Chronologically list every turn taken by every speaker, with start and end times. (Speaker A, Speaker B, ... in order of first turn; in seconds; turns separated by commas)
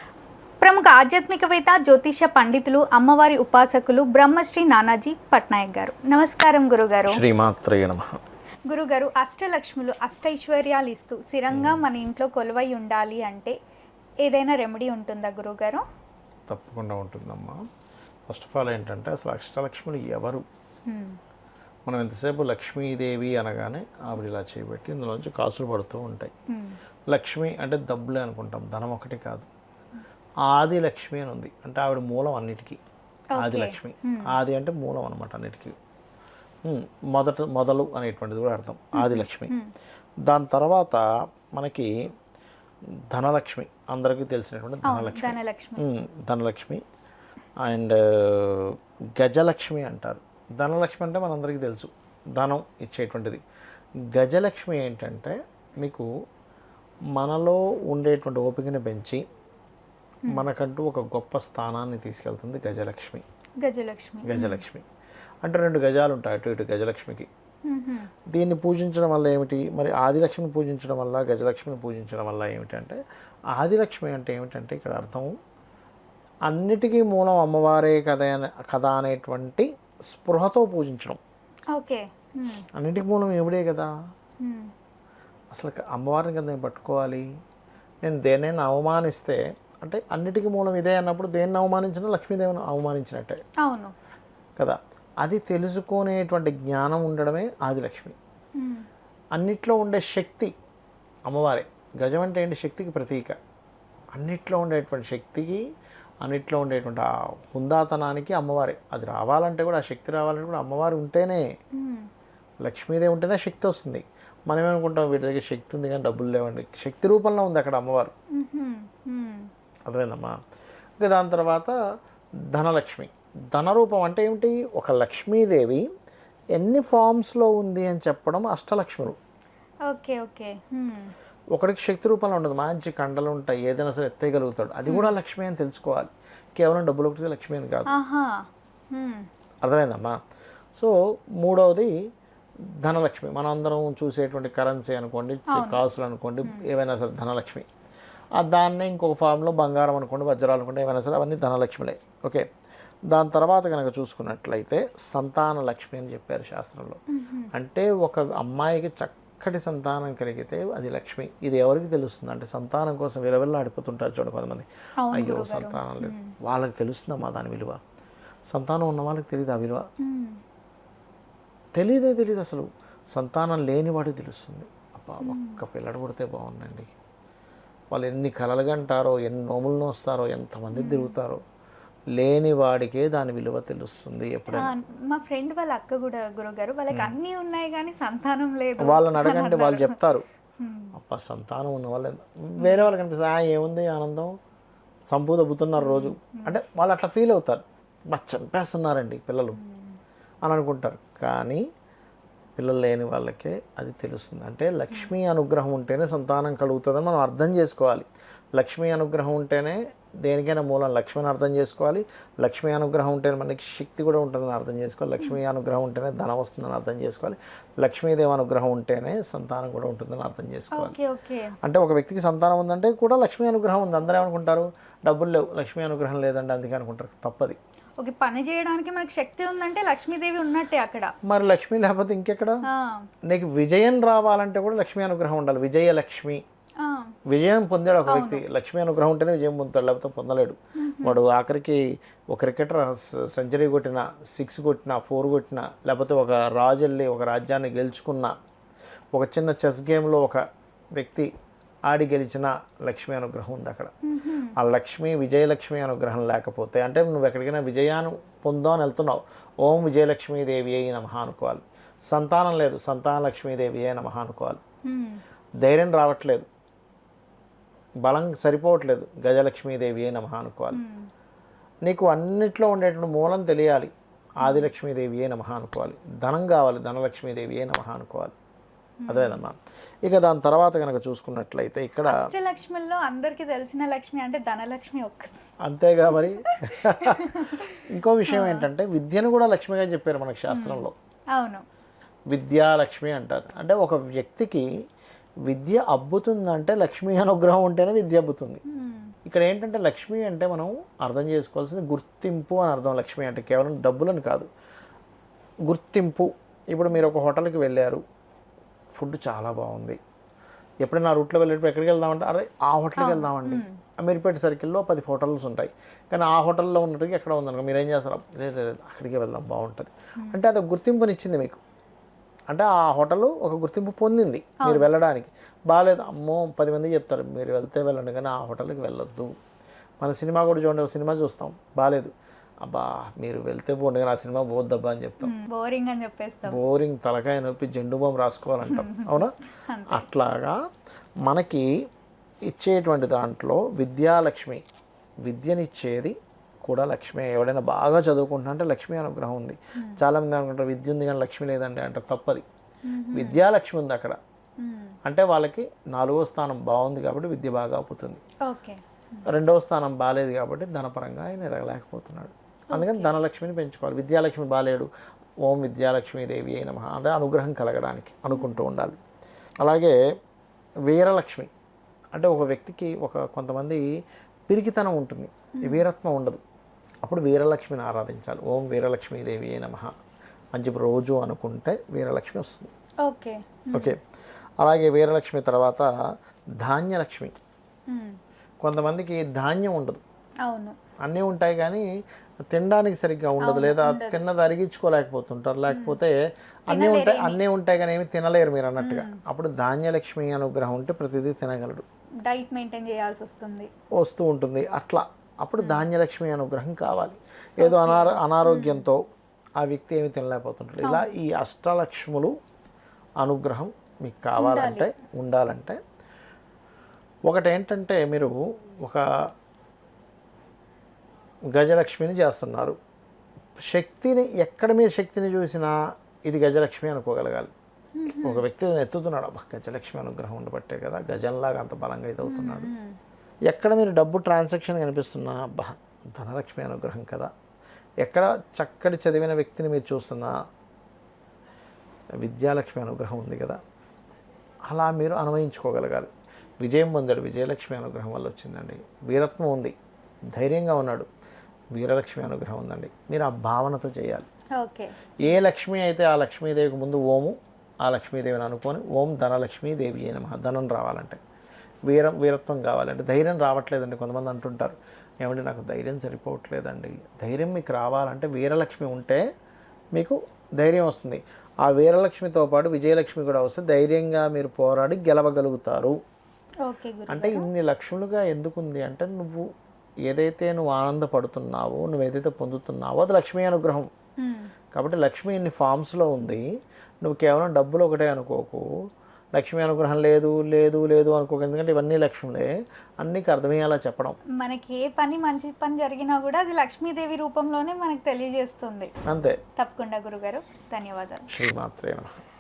Speaker A: 0.6-7.2, Speaker B: 7.1-8.2, Speaker A: 8.7-13.6, Speaker B: 11.5-11.8, Speaker A: 14.2-15.8, Speaker B: 16.5-17.6, Speaker B: 18.3-20.4, Speaker A: 20.9-21.2, Speaker B: 21.9-26.3, Speaker A: 26.5-26.8, Speaker B: 27.1-29.5, Speaker B: 30.5-32.8, Speaker A: 33.4-34.3, Speaker B: 33.4-35.8, Speaker B: 36.6-39.5, Speaker A: 39.0-39.7, Speaker B: 40.2-41.9, Speaker B: 43.1-46.8, Speaker A: 44.9-45.8, Speaker B: 47.6-53.4, Speaker B: 54.1-56.1, Speaker B: 57.1-59.2, Speaker B: 60.3-63.2, Speaker A: 63.6-64.6, Speaker B: 64.2-64.9, Speaker B: 65.4-67.3, Speaker A: 67.7-68.1, Speaker B: 68.3-73.0, Speaker B: 73.5-75.3, Speaker B: 76.5-81.2, Speaker A: 81.7-82.7, Speaker B: 82.8-83.9, Speaker A: 84.4-84.7, Speaker B: 85.5-87.2, Speaker B: 88.0-93.4, Speaker A: 93.6-93.9, Speaker B: 94.6-98.2, Speaker A: 98.6-98.9, Speaker B: 99.4-100.5, Speaker B: 101.3-103.4, Speaker B: 104.2-105.6, Speaker B: 106.2-111.5, Speaker A: 111.7-112.1, Speaker B: 112.6-118.1, Speaker A: 118.3-119.5, Speaker B: 119.9-120.3, Speaker B: 121.0-121.8, Speaker B: 122.5-125.9, Speaker B: 126.6-129.2, Speaker A: 129.9-131.1, Speaker B: 131.6-137.9, Speaker A: 137.9-139.3, Speaker B: 139.6-140.2, Speaker B: 140.8-141.9, Speaker B: 142.8-147.7, Speaker A: 145.5-145.8, Speaker B: 148.4-152.4, Speaker B: 153.1-157.0, Speaker A: 157.1-157.5, Speaker B: 157.5-167.8, Speaker A: 165.0-166.3, Speaker B: 168.5-169.9, Speaker A: 170.0-170.4, Speaker B: 171.8-176.9, Speaker A: 175.2-175.6, Speaker B: 177.9-181.4, Speaker A: 180.8-181.2, Speaker B: 182.2-184.7, Speaker A: 184.5-190.0, Speaker B: 188.8-190.3, Speaker A: 190.6-190.9, Speaker B: 190.9-194.3, Speaker A: 192.6-192.9, Speaker B: 195.1-199.6, Speaker A: 195.8-196.5, Speaker A: 199.5-200.0, Speaker B: 200.4-201.6, Speaker B: 202.6-221.0, Speaker A: 220.7-221.6, Speaker B: 221.6-227.6, Speaker A: 228.0-231.1, Speaker B: 231.3-232.6, Speaker A: 232.7-233.1, Speaker B: 233.3-236.4, Speaker A: 236.8-237.2, Speaker B: 237.3-248.3, Speaker A: 238.1-238.4, Speaker A: 240.8-241.2, Speaker B: 249.1-250.4, Speaker B: 251.0-251.3, Speaker B: 251.9-253.9, Speaker A: 254.1-254.6, Speaker B: 254.6-264.6, Speaker A: 264.9-265.2, Speaker B: 265.6-266.5, Speaker B: 268.1-270.8, Speaker A: 270.7-271.1, Speaker B: 271.9-278.3, Speaker A: 274.4-274.7, Speaker A: 279.0-279.4, Speaker B: 279.1-282.2, Speaker A: 282.1-285.4, Speaker B: 285.6-290.9, Speaker A: 286.1-287.7, Speaker A: 288.3-288.7, Speaker A: 290.5-291.6, Speaker B: 292.3-294.7, Speaker B: 295.5-298.6, Speaker A: 298.7-299.1, Speaker B: 299.3-304.5, Speaker B: 305.7-308.0, Speaker B: 308.9-310.0, Speaker B: 310.8-321.6, Speaker A: 313.0-313.8, Speaker B: 322.5-329.3, Speaker A: 324.6-324.9, Speaker B: 330.0-332.1, Speaker B: 332.6-335.3, Speaker A: 335.2-336.6, Speaker B: 336.5-339.3, Speaker A: 338.7-340.1, Speaker B: 339.9-340.6, Speaker B: 341.2-341.7, Speaker B: 342.5-344.6, Speaker B: 345.3-352.4, Speaker A: 352.9-353.4, Speaker B: 353.1-354.2, Speaker A: 354.6-355.0, Speaker B: 355.1-358.2, Speaker A: 358.5-359.3, Speaker B: 359.3-364.9, Speaker A: 362.7-363.1, Speaker B: 365.4-369.0, Speaker A: 368.3-368.7, Speaker B: 369.6-370.0, Speaker B: 370.9-371.5, Speaker B: 372.1-373.8, Speaker B: 374.5-376.4, Speaker B: 377.0-379.9, Speaker B: 380.6-382.7, Speaker A: 383.1-383.9, Speaker B: 384.6-385.9, Speaker B: 386.6-387.3, Speaker A: 387.9-388.2, Speaker B: 388.6-390.0, Speaker A: 390.4-390.8, Speaker B: 391.1-391.9, Speaker B: 392.5-396.1, Speaker A: 393.4-394.2, Speaker A: 395.7-396.0, Speaker B: 396.7-401.9, Speaker A: 396.7-397.4, Speaker A: 398.8-399.1, Speaker A: 402.3-403.7, Speaker B: 404.0-409.0, Speaker A: 405.6-405.9, Speaker A: 407.6-408.9, Speaker B: 409.6-412.3, Speaker A: 410.8-411.1, Speaker B: 413.2-415.8, Speaker A: 414.4-414.9, Speaker B: 417.3-419.0, Speaker B: 421.5-422.8, Speaker B: 423.6-425.7, Speaker B: 426.3-427.5, Speaker A: 427.9-428.4, Speaker B: 428.1-432.7, Speaker A: 432.2-433.0, Speaker B: 433.5-437.3, Speaker B: 438.0-440.3, Speaker B: 442.2-443.6, Speaker B: 444.7-446.1, Speaker B: 446.6-449.8, Speaker B: 450.3-451.1, Speaker B: 451.8-454.3, Speaker A: 454.6-454.9, Speaker B: 455.2-461.2, Speaker B: 461.9-469.2, Speaker B: 470.0-476.0, Speaker A: 476.6-477.5, Speaker B: 477.1-479.5, Speaker B: 480.1-483.9, Speaker A: 484.2-484.5, Speaker B: 484.7-486.4, Speaker B: 487.0-488.7, Speaker B: 489.4-494.2, Speaker A: 494.4-498.9, Speaker B: 499.1-499.4, Speaker A: 499.6-501.3, Speaker B: 501.3-502.2